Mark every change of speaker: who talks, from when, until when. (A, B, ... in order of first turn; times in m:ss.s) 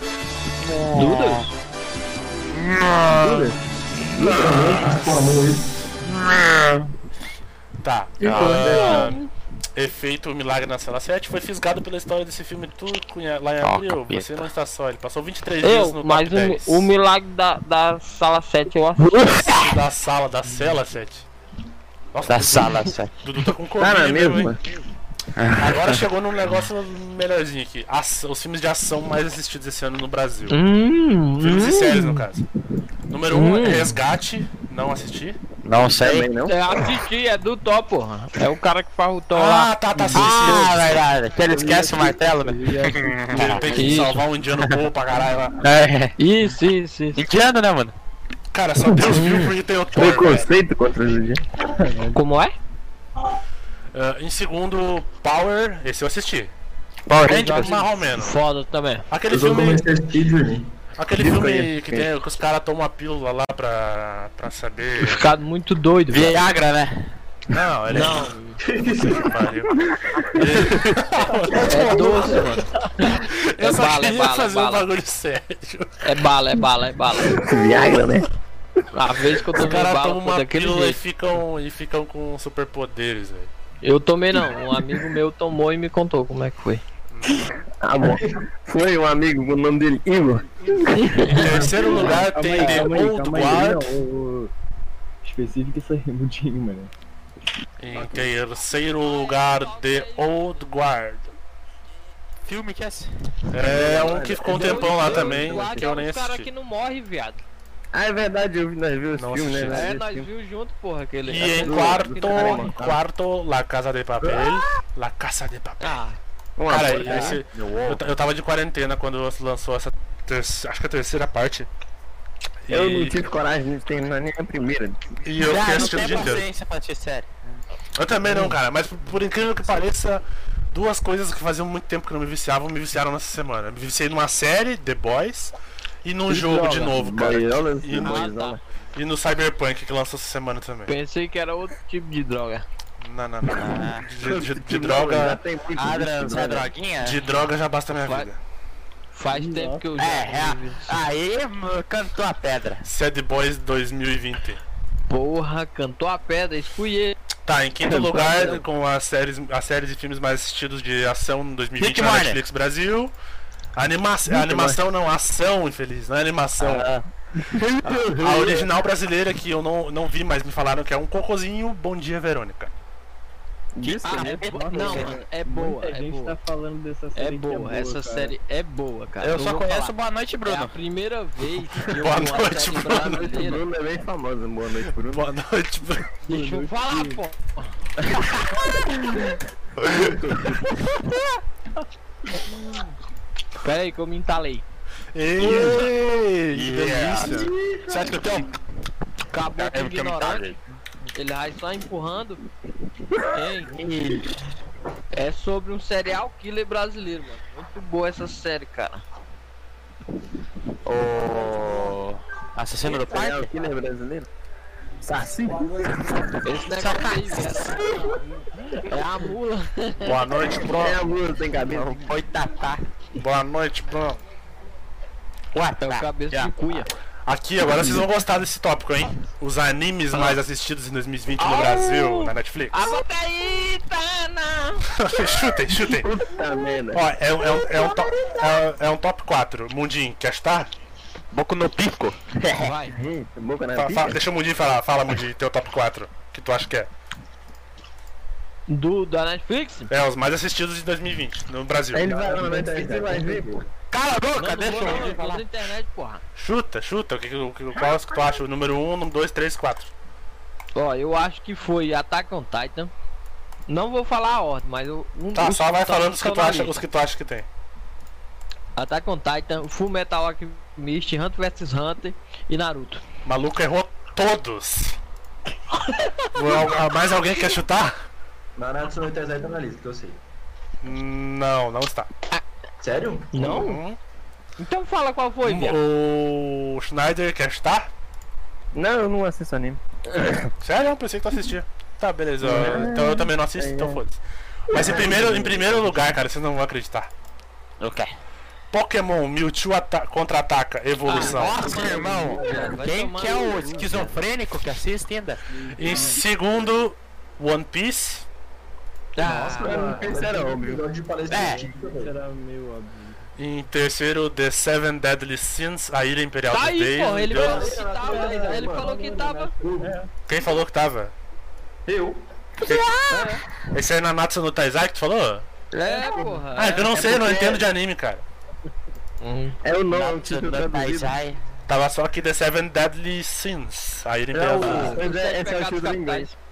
0:00.6-0:01.4 A
0:01.0-0:01.5 B
0:02.5-0:03.5 A
0:03.2-0:03.6 C
0:04.1-0:05.7 D
0:06.0-0:06.9 A
0:07.8-0:09.2 E
0:08.2-0:09.3 B
0:08.2-0:09.1 A
0:09.8-0:16.9 E
0:13.6-0:14.5 A
0:15.6-0:19.4 B
0:19.2-0:21.3 E
0:22.1-0:24.6 E
0:22.3-0:23.1 A
0:23.8-0:24.6 F
0:25.4-0:26.0 A
0:25.6-0:30.6 E
0:30.5-0:32.2 B
0:31.4-0:32.5 E
0:33.1-0:35.4 E
0:33.3-0:33.9 B
0:35.6-0:36.3 A
0:36.0-0:36.6 F
0:36.5-0:40.0 B
0:39.3-0:41.0 E
0:40.1-0:43.6 A
0:41.4-0:44.0 C
0:43.3-0:45.6 E
0:43.7-0:44.2 B
0:45.6-0:46.1 A
0:46.2-0:47.2 B
0:47.2-0:48.0 A
0:48.5-0:50.5 E
0:48.9-0:49.3 F
0:49.1-0:49.5 B
0:49.9-0:51.4 F
0:51.8-0:52.1 C
0:52.1-0:52.6 B
0:53.9-0:56.5 E
0:57.1-0:57.7 A
0:57.2-0:58.4 E
0:57.3-0:59.1 B
0:59.1-0:59.9 E
0:59.3-1:00.7 D
1:01.0-1:05.3 E
1:01.2-1:02.1 F
1:05.0-1:06.4 B
1:06.1-1:07.0 A
1:07.5-1:09.8 E
1:07.9-1:08.6 B
1:08.6-1:09.3 D
1:10.4-1:11.2 A
1:10.4-1:12.4 E
1:11.7-1:14.8 B
1:13.1-1:16.0 E
1:16.0-1:17.4 B
1:17.3-1:18.3 F
1:18.9-1:21.0 B
1:19.5-1:23.5 E
1:23.8-1:26.8 B
1:27.1-1:27.6 E
1:27.8-1:31.6 F
1:30.9-1:32.1 B
1:31.2-1:33.9 E
1:31.5-1:34.5 C
1:35.2-1:36.9 C
1:37.8-1:41.3 E
1:38.9-1:40.7 B
1:42.4-1:43.1 A
1:43.5-1:46.5 E
1:43.6-1:45.8 F
1:44.5-1:47.4 B
1:47.9-1:50.3 F
1:49.2-1:49.8 E
1:49.7-1:52.8 B
1:51.2-1:56.0 E
1:51.5-1:53.0 F
1:54.2-1:54.6 F
1:55.8-1:56.2 B
1:56.6-1:57.4 F
1:56.7-2:01.7 E
1:57.6-1:57.9 A
2:02.7-2:03.2 E
2:02.7-2:05.0 F
2:05.2-2:06.5 E
2:05.4-2:07.3 A
2:05.8-2:06.2 F
2:08.0-2:18.2 E
2:08.2-2:08.6 F
2:16.3-2:18.6 F
2:18.0-2:18.6 B
2:19.0-2:20.9 E
2:20.9-2:22.6 B
2:23.0-2:25.4 E
2:23.6-2:24.0 A
2:24.2-2:26.7 F
2:25.8-2:27.2 A
2:27.0-2:28.4 E
2:29.1-2:31.0 B
2:29.3-2:29.9 C
2:30.0-2:32.9 A
2:32.8-2:34.6 E
2:35.1-2:37.2 B
2:37.5-2:43.1 E
2:37.8-2:38.6 F
2:41.8-2:42.4 A
2:43.8-2:46.9 E
2:44.3-2:44.8 F
2:47.8-2:48.6 F
2:47.9-2:48.1 A
2:48.0-2:52.7 E
2:53.8-2:55.2 F
2:53.8-2:55.1 A
2:54.0-2:56.4 B
2:54.5-2:58.3 C
2:57.2-3:03.6 B
2:59.2-3:00.7 A
3:01.9-3:03.4 E
3:02.8-3:05.2 F
3:04.9-3:06.1 E
3:06.2-3:07.7 B
3:06.3-3:07.2 C
3:08.8-3:09.2 F
3:09.8-3:10.7 F
3:13.6-3:14.6 B
3:15.2-3:17.5 E
3:15.4-3:15.8 A
3:16.5-3:18.5 A
3:19.3-3:20.5 B
3:19.5-3:20.6 A
3:21.2-3:22.4 B
3:23.3-3:23.7 B
3:25.1-3:29.0 B
3:30.9-3:33.5 A
3:32.9-3:34.3 F
3:35.0-3:36.3 F
3:36.4-3:38.0 B
3:36.7-3:38.0 A
3:38.8-3:40.2 B
3:40.0-3:41.0 E
3:40.7-3:42.0 F
3:41.6-3:42.8 A
3:43.2-3:44.2 E
3:45.5-3:46.5 A
3:45.8-3:46.9 B
3:47.3-3:53.0 E
3:47.7-3:48.1 F
3:51.4-3:54.8 B
3:55.0-3:56.1 E
3:55.8-3:57.1 F
3:56.9-4:00.7 E
4:01.3-4:02.2 A
4:02.6-4:03.0 B
4:02.8-4:04.2 F
4:03.8-4:06.9 E
4:08.7-4:09.9 B
4:09.9-4:12.1 E
4:11.9-4:13.6 F
4:12.0-4:13.6 D
4:13.9-4:15.4 A
4:14.4-4:16.2 B
4:16.4-4:19.9 E
4:20.8-4:22.9 B
4:23.7-4:26.8 B
4:25.4-4:27.5 E
4:28.8-4:33.0 B
4:33.2-4:35.0 E
4:35.7-4:36.3 B
4:36.3-4:38.0 E
4:38.6-4:40.2 D
4:40.8-4:42.1 E
4:42.8-4:43.5 D
4:43.3-4:43.8 B
4:43.4-4:44.0 E
4:44.6-4:45.8 B
4:45.4-4:47.9 E
4:48.7-4:50.4 F
4:50.6-4:57.1 E
4:52.4-4:54.0 F
4:54.7-4:56.1 F
4:57.8-4:58.1 A
4:58.7-5:01.6 E
5:01.1-5:04.2 B
5:01.1-5:05.4 A
5:05.5-5:06.2 C
5:05.8-5:08.3 E
5:09.2-5:09.9 B
5:09.4-5:10.4 C
5:09.4-5:12.2 D
5:09.5-5:10.8 F
5:11.3-5:11.6 A
5:11.5-5:13.3 C
5:13.4-5:17.8 E
5:16.5-5:19.6 B
5:17.3-5:20.0 D
5:18.0-5:19.1 C
5:19.8-5:20.1 C
5:20.3-5:21.1 E
5:21.9-5:22.3 D
5:22.6-5:22.9 E
5:23.1-5:23.4 B
5:23.7-5:25.5 E
5:25.7-5:27.0 B
5:26.0-5:26.4 F
5:26.5-5:28.2 E
5:26.9-5:27.6 F
5:29.2-5:29.6 B
5:29.6-5:31.2 F
5:29.9-5:31.4 A
5:31.7-5:35.0 E
5:34.4-5:36.3 F
5:34.6-5:36.3 B